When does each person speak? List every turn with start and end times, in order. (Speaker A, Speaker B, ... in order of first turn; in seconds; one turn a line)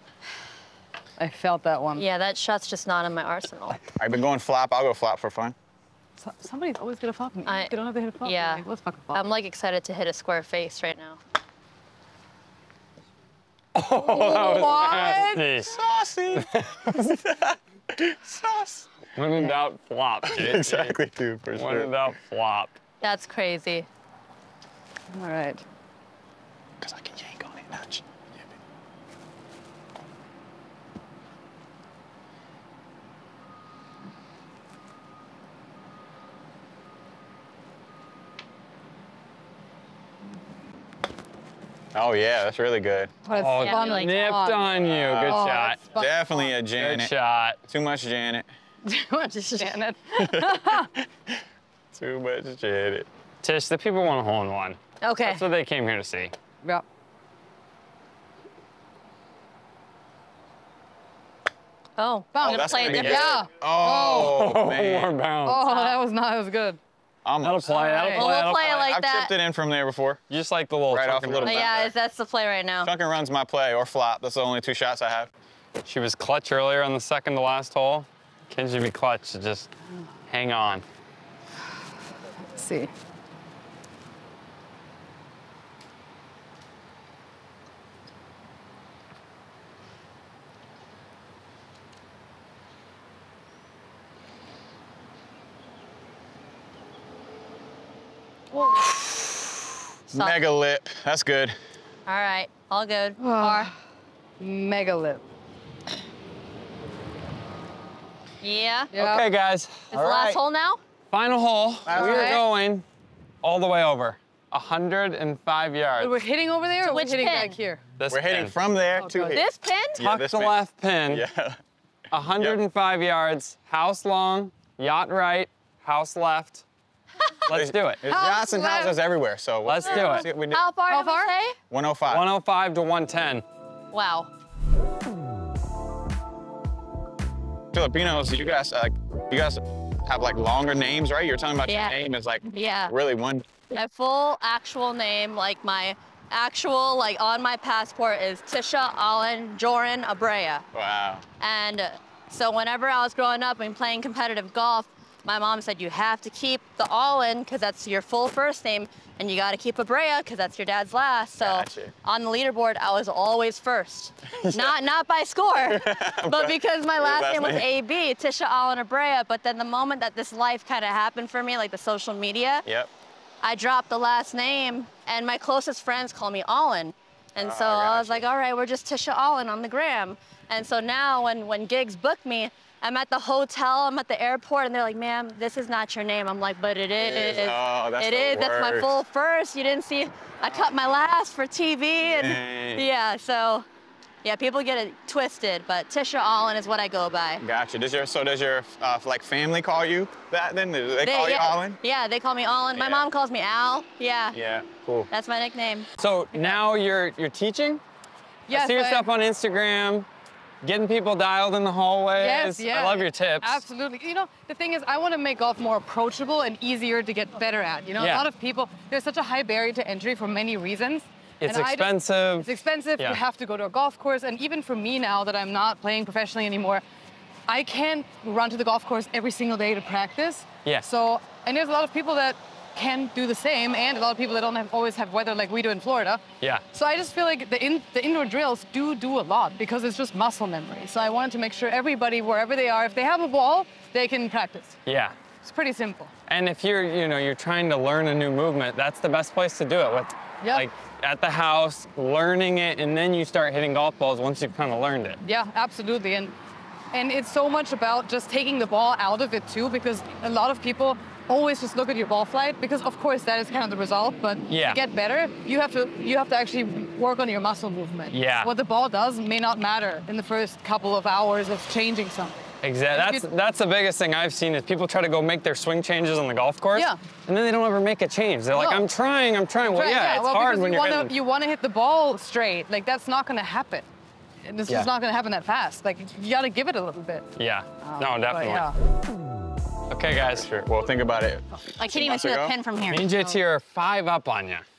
Speaker A: 1.2-2.0
Speaker B: 2.0-3.8
Speaker C: 4.0-5.5
Speaker A: 6.2-9.2
Speaker B: 7.5-7.7
Speaker B: 8.2-11.2
Speaker D: 13.8-15.7
Speaker A: 14.0-15.4
Speaker C: 15.6-18.9
Speaker D: 16.4-17.1
Speaker D: 19.1-21.0
Speaker C: 20.2-22.1
Speaker D: 21.5-22.8
Speaker B: 23.0-23.9
Speaker A: 25.1-25.6
Speaker C: 26.8-28.5
Speaker C: 41.9-43.1
Speaker A: 43.2-46.6
Speaker D: 43.4-45.8
Speaker B: 43.6-44.2
Speaker C: 44.7-47.1
Speaker D: 46.8-47.6
Speaker C: 47.7-48.5
Speaker A: 48.9-50.9
Speaker B: 49.3-49.8
Speaker C: 50.2-53.1
Speaker D: 53.4-56.3
Speaker B: 55.0-55.4
Speaker B: 62.0-63.4
Speaker A: 62.3-64.5
Speaker C: 62.4-65.1
Speaker D: 62.8-63.2
Speaker D: 64.0-65.6
Speaker A: 65.5-66.8
Speaker B: 65.7-66.0
Speaker C: 67.2-67.8
Speaker D: 67.4-68.8
Speaker A: 67.7-68.3
Speaker B: 68.1-69.3
Speaker C: 68.5-70.2
Speaker D: 70.3-71.7
Speaker C: 70.9-71.9
Speaker B: 71.4-72.9
Speaker C: 72.8-75.3
Speaker D: 75.8-79.7
Speaker D: 80.3-80.8
Speaker A: 82.5-82.9
Speaker C: 100.1-101.6
Speaker B: 100.1-100.4
Speaker B: 102.1-103.7
Speaker A: 103.2-103.8
Speaker A: 104.4-105.2
Speaker B: 108.4-108.9
Speaker A: 108.9-109.3
Speaker D: 108.9-109.9
Speaker B: 109.9-110.8
Speaker C: 109.9-110.4
Speaker D: 111.1-112.8
Speaker C: 111.8-112.4
Speaker A: 111.9-112.4
Speaker D: 113.4-116.2
Speaker A: 116.0-117.8
Speaker B: 116.8-117.6
Speaker D: 118.0-118.5
Speaker C: 118.1-121.6
Speaker A: 119.0-119.4
Speaker B: 119.3-120.0
Speaker D: 120.0-121.2
Speaker D: 122.1-126.6
Speaker D: 127.5-128.0
Speaker C: 127.5-130.6
Speaker A: 128.1-129.0
Speaker D: 129.7-130.3
Speaker B: 130.5-131.6
Speaker A: 130.9-131.3
Speaker C: 131.7-132.3
Speaker D: 132.1-133.4
Speaker B: 133.9-134.3
Speaker C: 137.7-143.5
Speaker B: 141.7-142.9
Speaker B: 143.7-150.7
Speaker C: 150.7-151.2
Speaker B: 151.4-172.7
Speaker C: 161.4-161.9
Speaker C: 164.3-164.8
Speaker C: 165.6-167.7
Speaker C: 172.7-172.9
Speaker B: 173.4-193.7
Speaker C: 177.4-178.2
Speaker C: 187.0-188.9
Speaker C: 192.0-192.9
Speaker B: 194.2-197.4
Speaker C: 197.4-201.8
Speaker B: 201.0-204.4
Speaker C: 202.8-203.1
Speaker C: 204.3-205.1
Speaker B: 205.1-205.9
Speaker D: 206.0-207.8
Speaker A: 208.5-209.1
Speaker D: 208.5-210.1
Speaker D: 210.6-213.6
Speaker A: 212.2-226.8
Speaker D: 218.0-218.3
Speaker D: 221.4-223.2
Speaker A: 227.5-244.8
Speaker D: 244.9-245.2
Speaker A: 245.4-246.1
Speaker D: 246.3-255.2
Speaker A: 255.2-256.4
Speaker A: 256.9-273.2
Speaker D: 264.5-264.8
Speaker D: 268.1-268.5
Speaker D: 272.6-281.1
Speaker A: 276.7-277.0
Speaker A: 278.5-278.9
Speaker A: 279.6-283.9
Speaker A: 284.4-287.3
Speaker D: 287.4-288.7
Speaker A: 287.8-288.8
Speaker D: 289.9-290.5
Speaker C: 290.2-292.6
Speaker B: 291.8-293.1
Speaker D: 292.9-294.6